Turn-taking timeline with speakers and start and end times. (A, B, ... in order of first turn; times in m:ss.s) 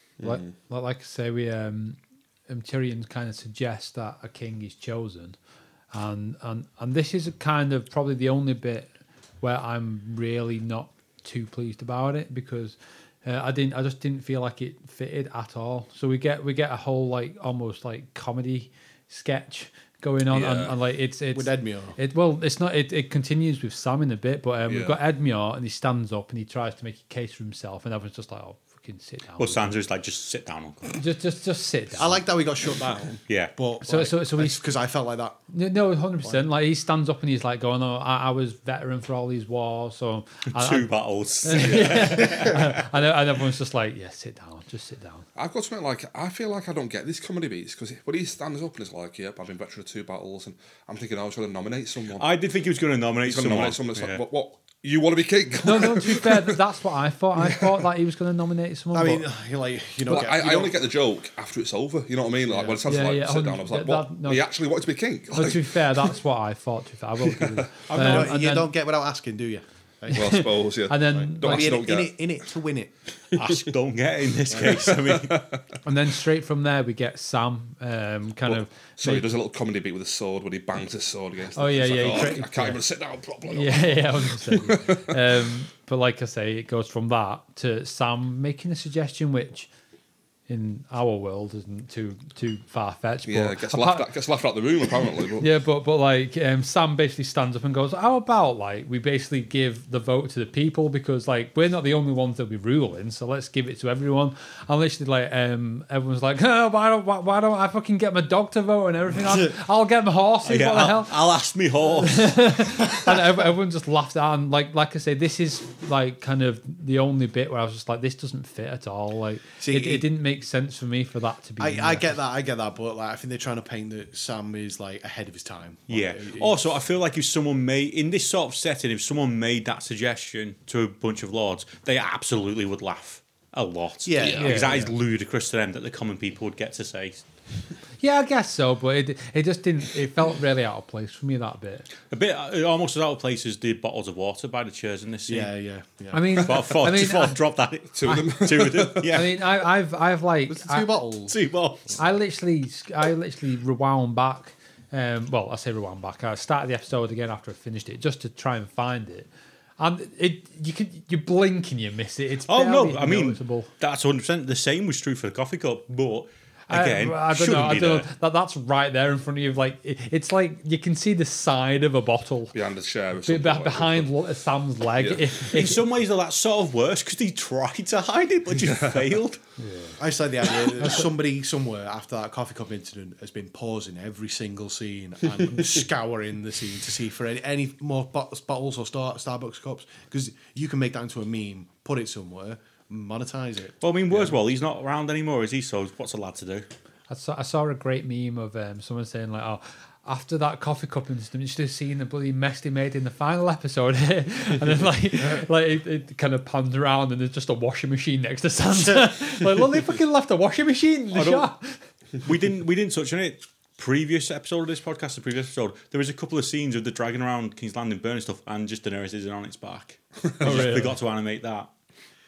0:00.2-0:00.5 A
0:00.2-0:05.4 B
0:05.9-0:08.9 B
0:09.4-0:29.8 B
0:20.3-0:20.8 A
0:21.3-0:22.0 C
0:24.7-0:25.0 A
0:29.4-0:31.0 D
0:30.9-0:32.2 B
0:32.0-0:35.4 C
0:33.3-0:33.5 D
0:33.8-0:34.6 B
0:35.5-0:45.3 B
0:40.5-0:42.8 D
0:41.6-0:42.2 A
0:45.4-0:52.3 A
0:52.2-0:54.2 D
0:53.2-0:56.6 A
0:55.6-0:59.2 B
0:58.9-1:00.9 C
1:00.1-1:05.8 A
1:02.5-1:02.8 C
1:02.8-1:04.5 B
1:05.3-1:08.7 B
1:07.3-1:07.6 A
1:07.9-1:08.4 D
1:07.9-1:10.5 C
1:10.1-1:11.8 B
1:10.1-1:12.2 A
1:11.1-1:12.9 C
1:13.4-1:15.5 D
1:14.6-1:15.6 A
1:15.8-1:19.3 B
1:18.5-1:25.2 A
1:21.6-1:22.8 B
1:23.5-1:29.7 B
1:30.5-1:34.1 B
1:33.3-1:35.5 A
1:35.4-1:51.3 B
1:50.4-1:52.4 D
1:52.0-2:02.2 B
1:59.6-2:00.1 C
2:01.6-2:06.6 C
2:05.9-2:17.2 D
2:14.0-2:14.9 C
2:14.4-2:14.9 B
2:18.0-2:21.9 B
2:22.1-2:25.5 D
2:25.3-2:26.5 C
2:26.1-2:27.4 B
2:26.4-2:29.5 D
2:28.0-2:29.2 A
2:28.9-2:30.9 B
2:30.5-2:31.4 C
2:31.3-2:32.0 D
2:32.0-2:43.7 B
2:42.5-2:48.1 D
2:46.7-2:52.6 B
2:52.5-2:54.1 A
2:53.2-2:55.8 B
2:55.0-2:55.2 A
2:55.5-2:59.4 D
2:58.6-2:59.1 A
2:59.6-3:00.0 B
3:00.0-3:14.2 C
3:00.8-3:01.1 B
3:13.8-3:16.7 D
3:17.1-3:31.8 B
3:31.1-3:31.5 D
3:32.2-3:41.7 D
3:40.4-3:41.0 B